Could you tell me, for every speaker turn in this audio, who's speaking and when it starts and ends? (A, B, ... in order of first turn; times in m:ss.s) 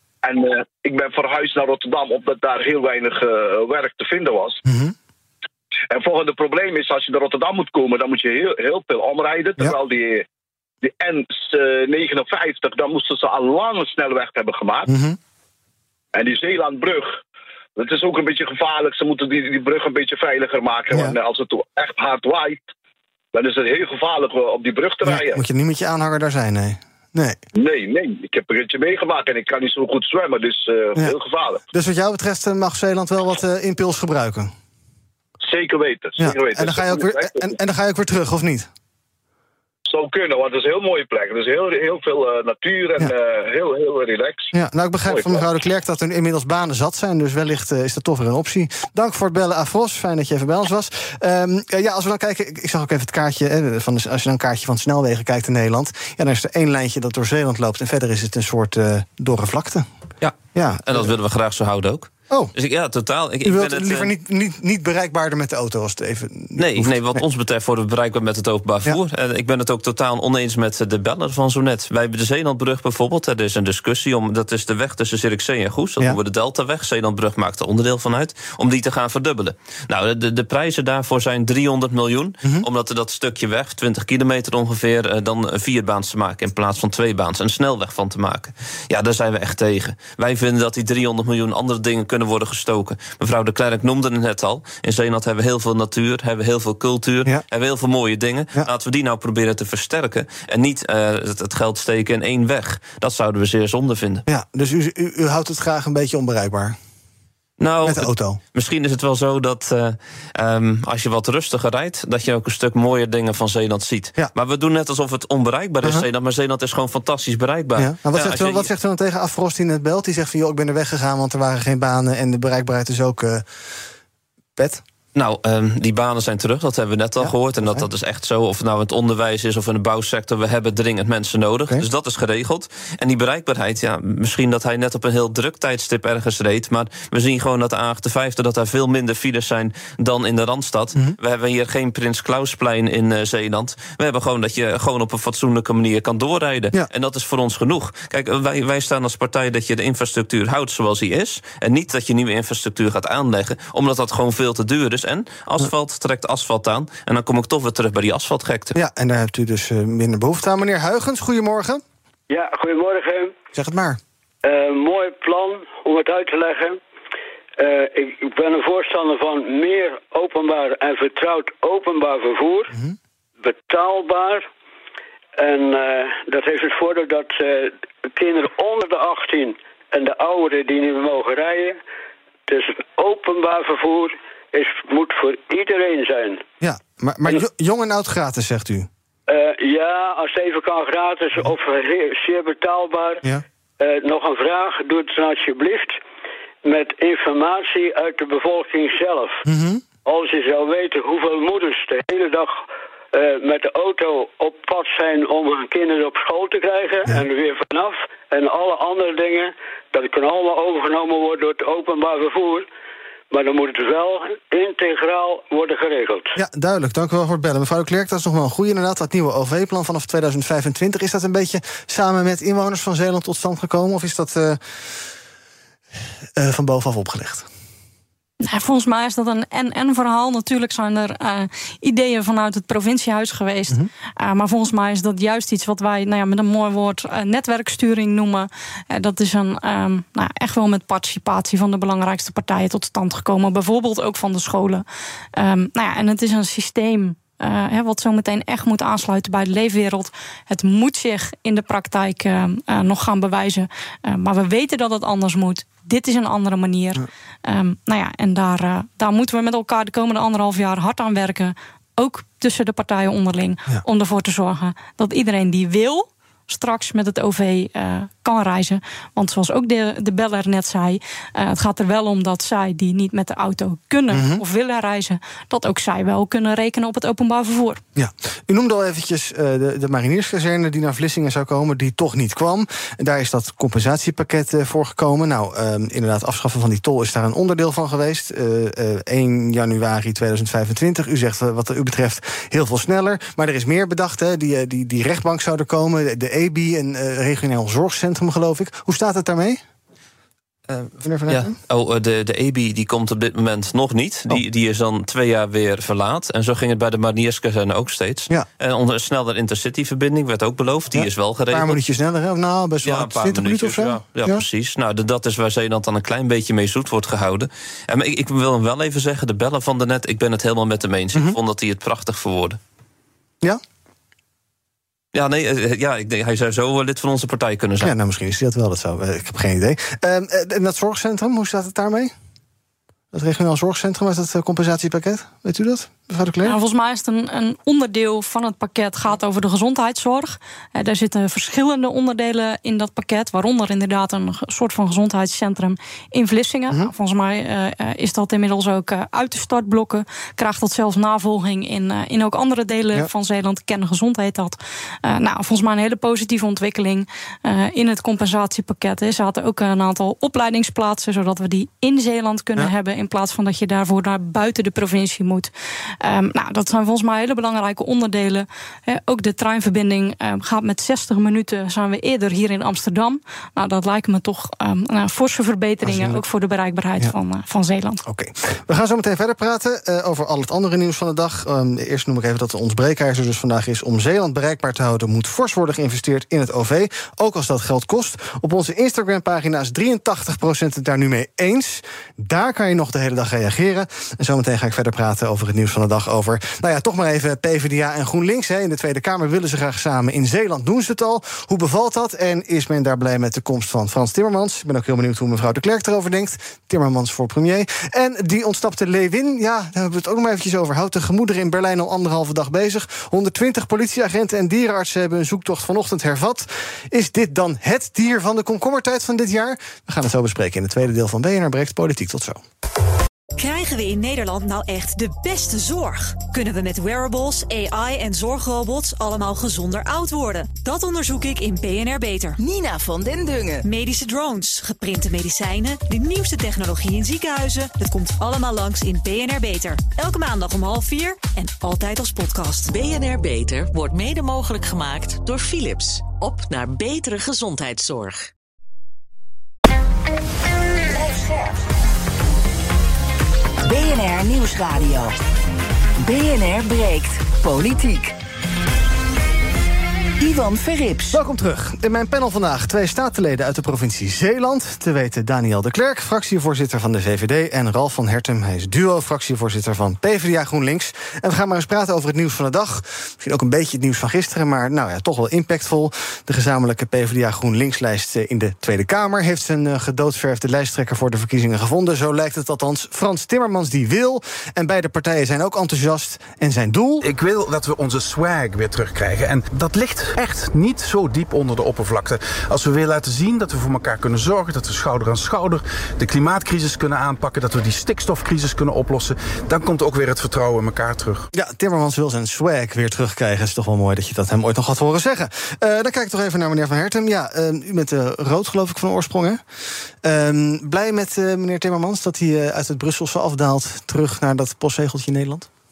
0:00.2-0:04.6 A
0:04.6-0:04.9 B
0:05.9-0:10.2 A
0:10.8-0:14.9 A
0:14.9-0:15.2 B
0:16.2-0:17.2 A
0:17.8-0:22.6 A
0:23.3-0:25.4 A
0:25.0-0:27.4 B
0:27.6-0:31.6 A
0:31.7-0:34.5 B
0:35.4-0:37.5 A
0:36.2-0:38.7 B
0:39.9-0:44.5 A
0:44.5-0:59.9 B
0:45.1-0:45.4 A
1:00.2-1:04.1 C
1:00.5-1:01.1 B
1:03.4-1:07.2 B
1:06.6-1:44.2 C
1:44.3-1:46.8 B
1:47.6-1:58.7 C
1:47.8-1:48.4 B
1:57.8-2:03.5 B
2:04.6-2:04.8 B
2:05.2-2:38.8 C
2:07.2-2:07.9 B
2:38.8-2:41.8 B
2:42.3-2:43.4 D
2:43.5-2:44.0 B
2:44.4-2:46.8 D
2:47.6-2:52.7 D
2:53.4-2:54.5 D
2:55.4-3:01.8 D
3:02.5-3:06.4 D
3:06.6-3:08.9 B
3:09.3-3:13.2 D
3:13.8-3:16.0 D
3:16.6-3:19.4 D
3:19.4-3:19.8 B
3:20.0-3:22.5 D
3:23.1-3:32.7 D
3:33.3-3:36.4 D
3:36.4-3:44.6 B
3:46.4-3:47.5 B
3:48.4-4:37.8 E
4:34.1-4:34.4 B
4:38.0-4:59.6 B
5:00.7-5:11.8 C
5:01.0-5:01.6 B
5:10.9-5:14.4 B
5:12.8-5:22.6 C
5:25.1-5:27.9 C
5:27.8-5:32.1 B
5:33.1-5:36.6 B
5:36.4-6:05.5 E
6:06.0-6:18.0 E
6:15.8-6:16.2 B
6:18.0-7:02.4 B
7:03.4-7:12.4 F
7:12.4-7:13.6 G
7:13.6-7:22.7 F
7:22.7-7:28.3 H
7:30.9-7:31.6 G
7:33.6-7:35.1 G
7:36.0-7:38.2 G
7:40.2-7:41.2 G
7:41.1-8:07.0 B
8:07.0-8:21.3 I
8:21.3-8:29.4 B
8:30.0-8:35.5 B